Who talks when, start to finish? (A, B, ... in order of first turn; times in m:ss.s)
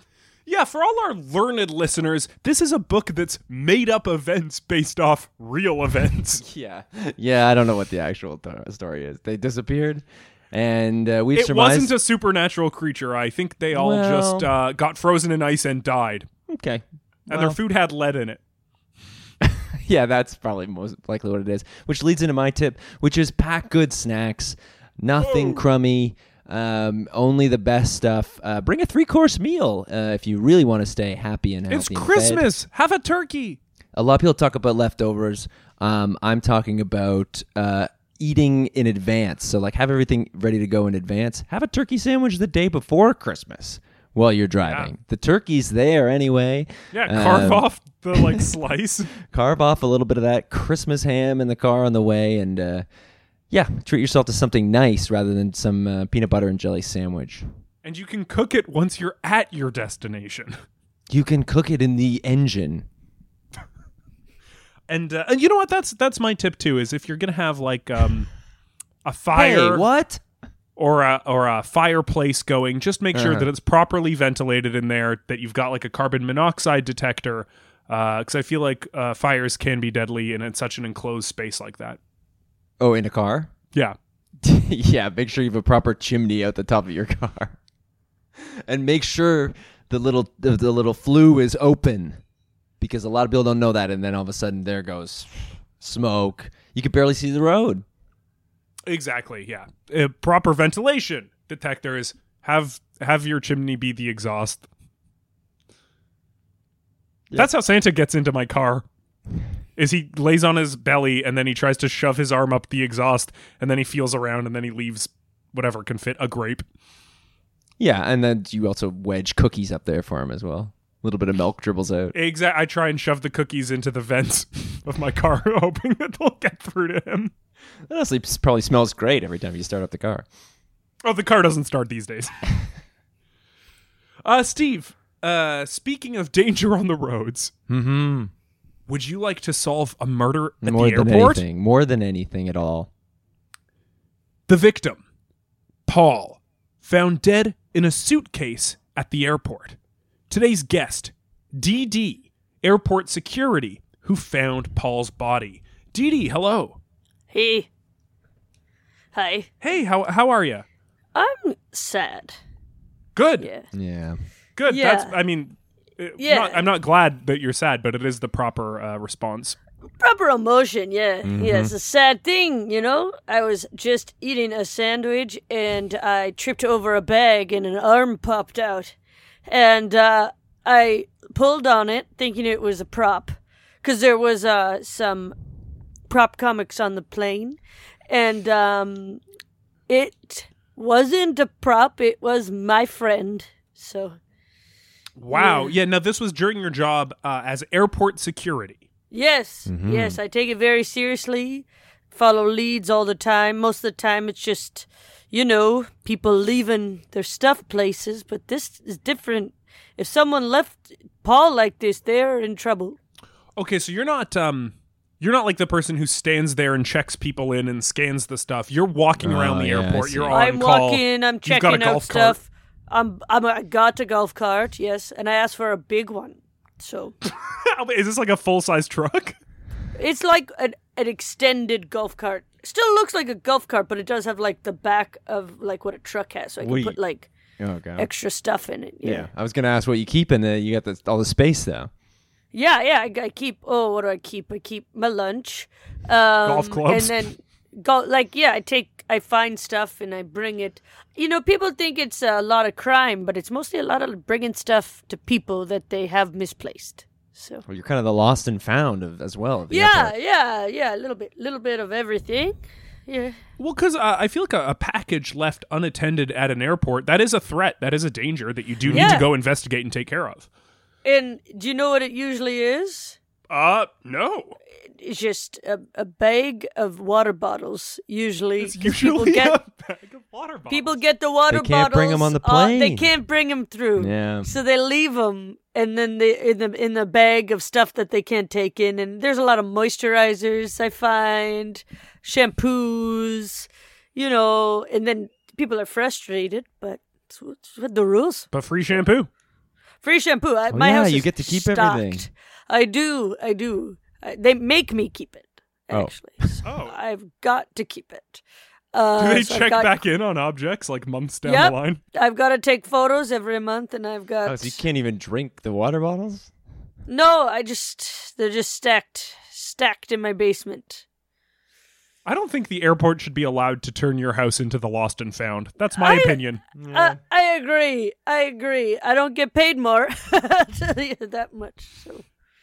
0:00.4-0:06.4 A
0:06.4-0:11.9 B
0:11.3-0:16.3 A
0:13.7-0:14.5 B
0:16.5-0:17.6 B
0:17.3-0:18.4 A
0:19.4-0:32.5 B
0:25.2-0:25.6 A
0:31.7-0:33.6 A
0:33.9-0:48.4 B
0:44.6-0:44.9 A
0:46.9-0:49.1 A
0:49.2-0:52.8 B
0:53.5-0:57.4 B
0:57.8-1:00.5 A
1:01.1-1:02.8 B
1:04.9-1:08.3 A
1:09.0-1:09.8 A
1:09.3-1:10.2 B
1:10.8-1:22.0 A
1:13.1-1:13.5 B
1:22.8-1:23.5 B
1:24.4-1:27.6 B
1:28.4-1:32.2 B
1:32.8-1:37.8 B
1:38.8-1:44.6 A
1:47.3-1:48.8 A
1:49.8-1:56.6 A
1:57.8-2:02.2 B
2:02.1-2:07.3 A
2:07.9-2:10.2 B
2:11.0-2:12.3 A
2:14.2-2:17.5 A
2:17.7-2:18.3 B
2:18.9-2:21.4 A
2:20.6-2:22.9 B
2:24.5-2:25.0 A
2:25.9-2:29.8 A
2:30.3-2:36.8 A
2:37.3-2:37.7 C
2:39.1-2:39.5 C
2:39.6-2:40.6 A
2:41.1-2:42.4 C
2:43.2-2:43.5 A
2:43.4-2:43.7 C
2:43.7-2:44.2 B
2:44.6-2:49.6 A
2:44.7-2:45.1 C
2:46.2-2:46.7 C
2:50.0-2:58.9 C
2:51.2-2:51.7 B
2:59.4-3:05.3 C
3:06.1-3:07.6 C
3:08.1-3:09.2 C
3:09.9-3:14.2 C
3:15.2-3:18.8 A
3:15.3-3:15.7 C
3:19.1-3:33.0 C
3:19.7-3:20.2 B
3:33.6-3:42.4 A
3:39.2-3:40.3 B
3:40.3-3:47.1 C
3:47.5-3:49.4 A
3:50.0-3:57.3 C
3:56.6-3:57.0 B
3:57.6-3:58.1 B
3:58.0-3:59.3 C
3:59.0-4:01.9 B
4:02.5-4:17.6 C
4:06.4-4:07.3 A
4:17.7-4:20.1 B
4:19.7-4:23.4 C
4:23.6-4:30.5 A
4:28.8-4:29.2 B
4:28.9-4:29.3 C
4:31.0-4:33.2 C
4:33.5-4:34.6 A
4:35.0-4:39.6 C
4:38.6-4:41.0 A
4:40.7-4:59.0 C
4:41.5-4:43.1 B
4:44.0-4:44.5 B
4:58.5-4:59.3 A
5:00.0-5:09.9 C
5:00.7-5:02.3 B
5:05.9-5:06.6 B
5:06.6-5:06.9 A
5:09.2-5:12.0 A
5:11.4-5:14.8 C
5:14.4-5:16.5 B
5:17.1-5:21.0 C
5:22.2-5:26.6 A
5:26.0-5:26.4 C
5:26.8-5:27.2 B
5:26.9-5:32.2 C